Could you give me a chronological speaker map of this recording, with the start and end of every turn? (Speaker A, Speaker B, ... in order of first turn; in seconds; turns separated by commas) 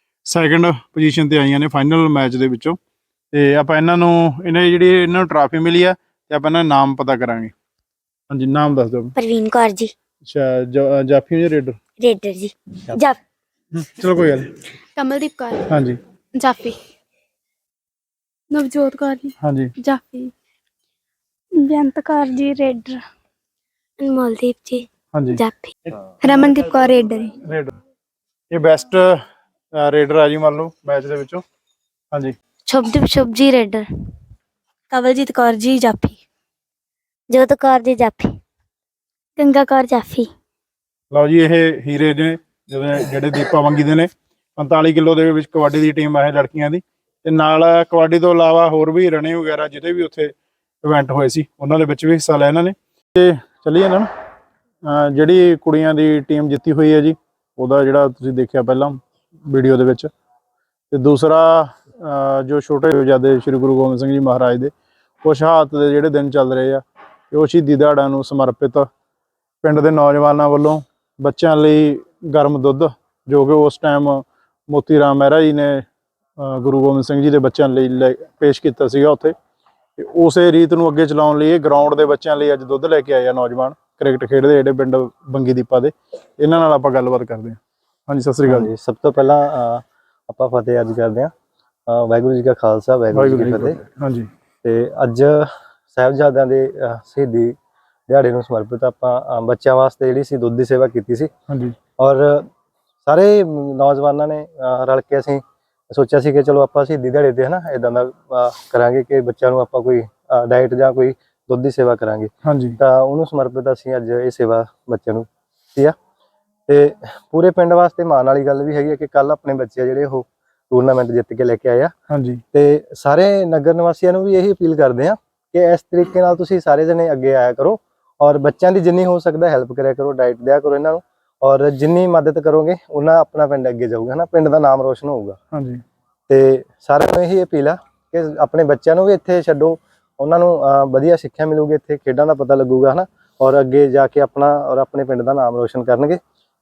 Speaker A: 0.2-2.8, Speaker A: 3.3-7.5, Speaker A: 8.3-9.1, Speaker B: 9.2-9.9, Speaker A: 10.2-11.8, Speaker B: 12.0-13.2, Speaker A: 13.7-14.5, Speaker C: 15.0-15.7, Speaker A: 15.7-16.0, Speaker C: 16.4-16.8, Speaker C: 18.5-20.3, Speaker A: 19.4-19.7, Speaker C: 21.6-23.0, Speaker B: 24.0-25.7, Speaker A: 25.1-25.4, Speaker C: 26.2-27.4, Speaker A: 27.4-27.7, Speaker A: 28.5-29.2, Speaker A: 29.7-31.4, Speaker B: 32.7-33.9, Speaker C: 35.0-36.1, Speaker B: 37.3-38.4, Speaker B: 39.4-40.3, Speaker A: 41.1-54.1, Speaker A: 54.8-60.1, Speaker A: 60.9-64.7, Speaker A: 65.2-68.9, Speaker A: 69.6-75.8, Speaker A: 76.4-79.3, Speaker A: 80.0-88.7, Speaker D: 88.4-91.3, Speaker D: 91.9-93.8, Speaker A: 93.1-94.3, Speaker D: 94.6-97.5, Speaker D: 98.1-101.3, Speaker A: 101.5-101.8, Speaker D: 102.0-102.5, Speaker D: 103.0-115.9, Speaker A: 112.4-112.8, Speaker D: 116.7-121.9, Speaker A: 122.1-122.4, Speaker D: 122.5-135.4, Speaker A: 135.5-135.8, Speaker D: 136.3-146.2